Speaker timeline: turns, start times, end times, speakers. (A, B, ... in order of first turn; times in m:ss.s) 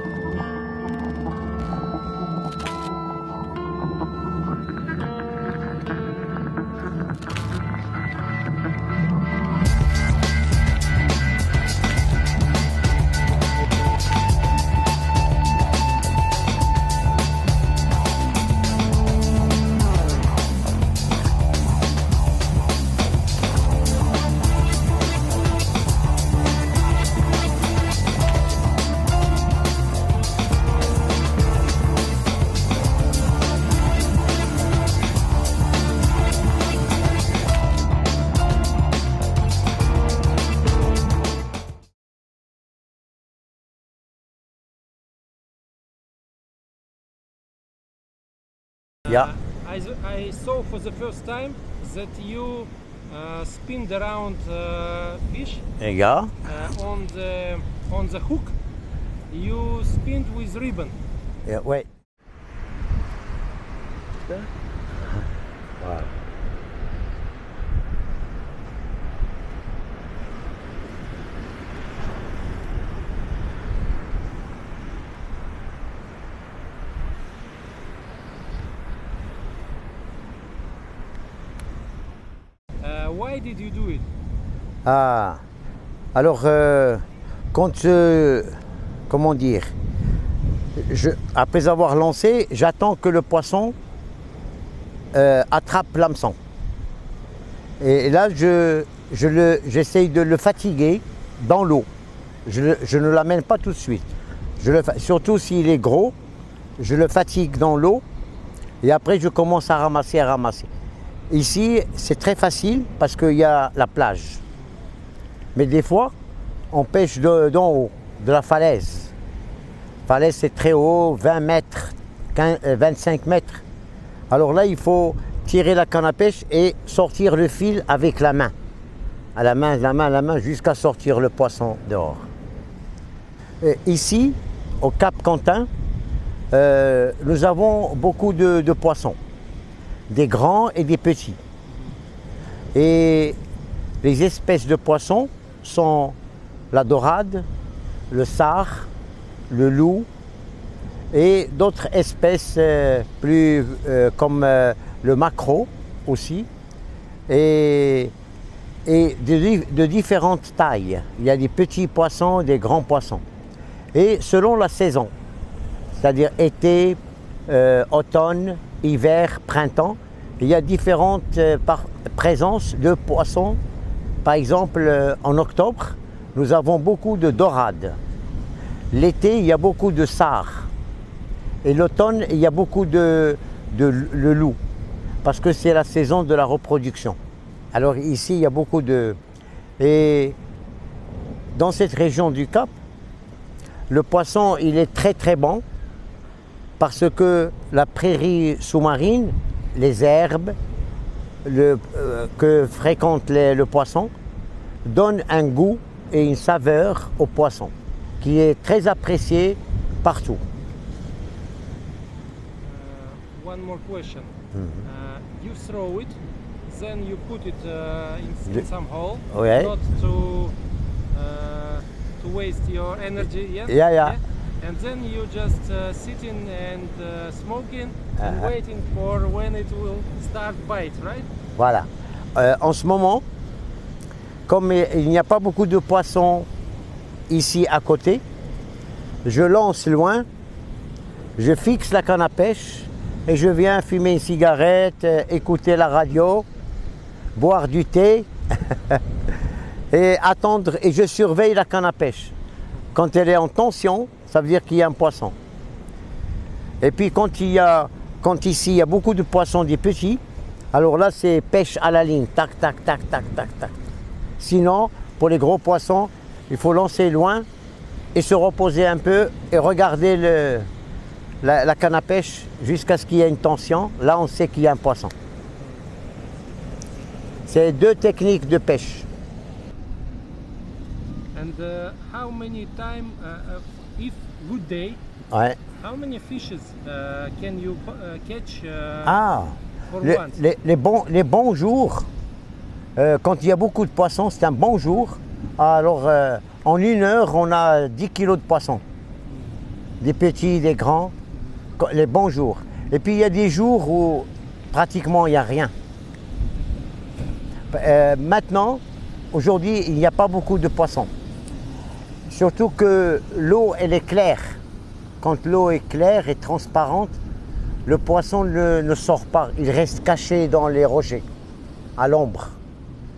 0:49.0-0:55.6 A
0:55.8-0:56.3 B
0:56.5-0:58.6 A
0:59.3-1:01.0 A
1:01.5-1:01.9 B
1:05.8-1:06.1 B
1:22.8-1:24.1 A
1:24.8-1:25.4 B
1:26.2-1:28.6 B
1:29.1-1:29.8 B
1:30.8-1:33.8 B
1:35.1-1:36.4 B
1:37.8-1:41.9 B
1:42.5-1:46.2 B
1:46.8-1:48.0 B
1:48.8-1:50.7 B
1:51.3-1:54.4 B
1:55.6-1:56.2 B
1:56.7-1:59.1 B
2:00.1-2:03.6 B
2:04.3-2:08.5 B
2:09.4-2:12.3 B
2:13.6-2:15.7 B
2:16.5-2:19.2 B
2:20.1-2:21.4 B
2:22.8-2:23.4 B
2:24.0-2:26.2 B
2:26.7-2:27.5 B
2:28.1-2:28.9 B
2:29.5-2:30.1 B
2:31.1-2:36.5 B
2:37.3-2:38.1 B
2:38.9-2:43.2 B
2:43.9-2:45.1 B
2:45.9-2:53.6 B
2:54.2-2:58.0 B
2:58.9-3:00.7 B
3:01.6-3:04.6 B
3:05.2-3:07.2 B
3:07.7-3:09.2 B
3:09.8-3:10.4 B
3:11.5-3:12.7 B
3:13.9-3:15.6 B
3:16.8-3:20.6 B
3:21.4-3:24.1 B
3:24.8-3:30.4 B
3:32.6-3:34.3 A
3:34.5-3:34.9 B
3:34.8-3:40.6 A
3:39.3-3:39.7 B
3:41.1-3:51.3 A
3:43.7-3:44.2 B
3:48.2-3:48.5 B
3:51.6-3:53.2 B
3:54.5-3:56.5 B
3:57.3-3:58.2 B
3:59.2-4:00.3 B
4:01.4-4:06.5 B
4:07.4-4:09.0 B
4:09.9-4:12.4 B
4:12.9-4:15.4 B
4:16.8-4:20.2 B
4:20.7-4:23.8 B
4:24.4-4:27.5 B
4:28.2-4:30.7 B
4:31.4-4:35.1 B
4:37.5-4:39.1 B
4:41.4-4:45.0 A
4:45.3-4:45.6 B
4:45.8-4:49.2 A
4:49.0-4:52.1 B
4:49.9-4:50.4 A
4:53.0-4:58.8 B
5:00.0-5:01.2 B
5:01.8-5:05.7 B
5:07.7-5:08.8 B
5:09.3-5:11.1 B
5:12.3-5:14.6 B
5:15.2-5:17.2 B
5:17.9-5:21.3 B
5:22.0-5:22.6 B